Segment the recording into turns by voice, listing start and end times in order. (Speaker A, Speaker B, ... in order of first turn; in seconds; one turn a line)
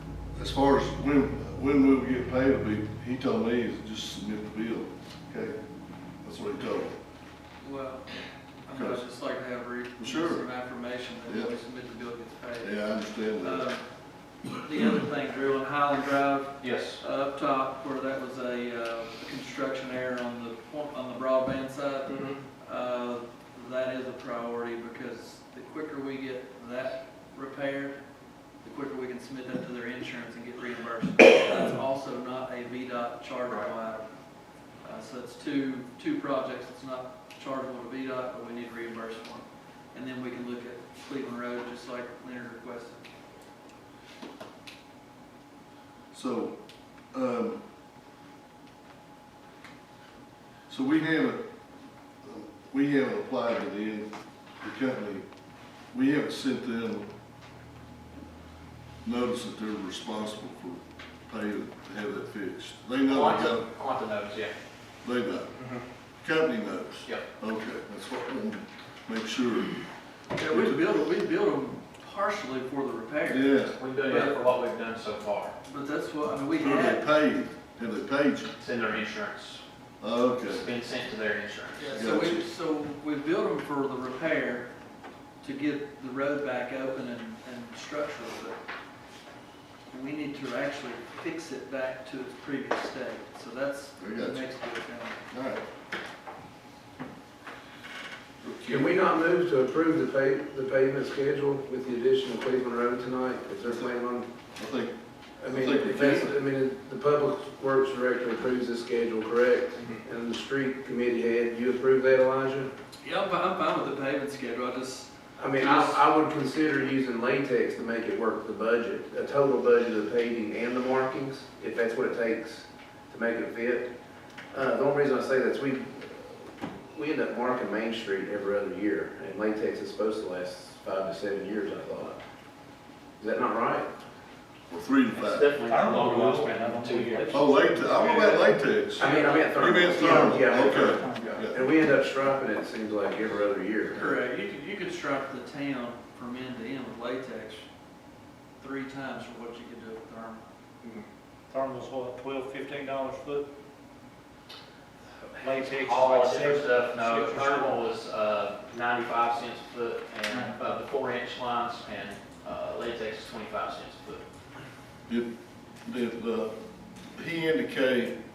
Speaker A: 0.4-5.6
Speaker A: 6.2-7.0
Speaker B: 7.6-13.8
Speaker A: 8.7-9.0
Speaker A: 10.0-10.5
Speaker A: 11.2-11.5
Speaker A: 12.6-13.7
Speaker B: 14.5-28.0
Speaker C: 16.6-17.0
Speaker D: 22.1-22.3
Speaker B: 28.6-34.0
Speaker B: 34.8-43.0
Speaker A: 46.1-46.5
Speaker A: 47.1-47.6
Speaker A: 50.7-51.4
Speaker A: 52.2-54.1
Speaker A: 54.6-55.2
Speaker A: 55.9-57.1
Speaker A: 59.0-63.7
Speaker C: 63.1-64.5
Speaker A: 65.0-65.6
Speaker A: 66.2-69.8
Speaker B: 70.3-73.5
Speaker A: 70.5-71.0
Speaker A: 73.2-73.8
Speaker C: 73.8-75.5
Speaker B: 74.0-74.4
Speaker B: 75.6-77.0
Speaker A: 76.6-78.5
Speaker C: 78.6-79.6
Speaker A: 80.0-80.7
Speaker C: 80.4-82.1
Speaker B: 81.8-84.7
Speaker A: 81.9-82.4
Speaker B: 85.4-88.6
Speaker B: 89.9-95.2
Speaker A: 94.0-94.5
Speaker A: 95.3-95.6
Speaker A: 98.4-99.0
Speaker D: 98.6-104.3
Speaker A: 104.6-104.9
Speaker D: 105.4-112.7
Speaker A: 105.5-106.3
Speaker B: 113.0-116.0
Speaker D: 115.4-123.9
Speaker D: 124.5-132.2
Speaker D: 133.2-133.9
Speaker A: 134.7-135.5
Speaker C: 135.1-137.6
Speaker E: 135.6-137.9
Speaker A: 137.3-141.6
Speaker B: 137.9-138.4
Speaker C: 139.0-140.2
Speaker D: 139.0-144.1
Speaker E: 140.8-141.3
Speaker B: 143.9-147.7
Speaker B: 148.6-150.4
Speaker E: 151.5-153.4
Speaker C: 155.3-164.2
Speaker E: 155.4-157.8
Speaker A: 165.8-166.5
Speaker A: 167.2-168.2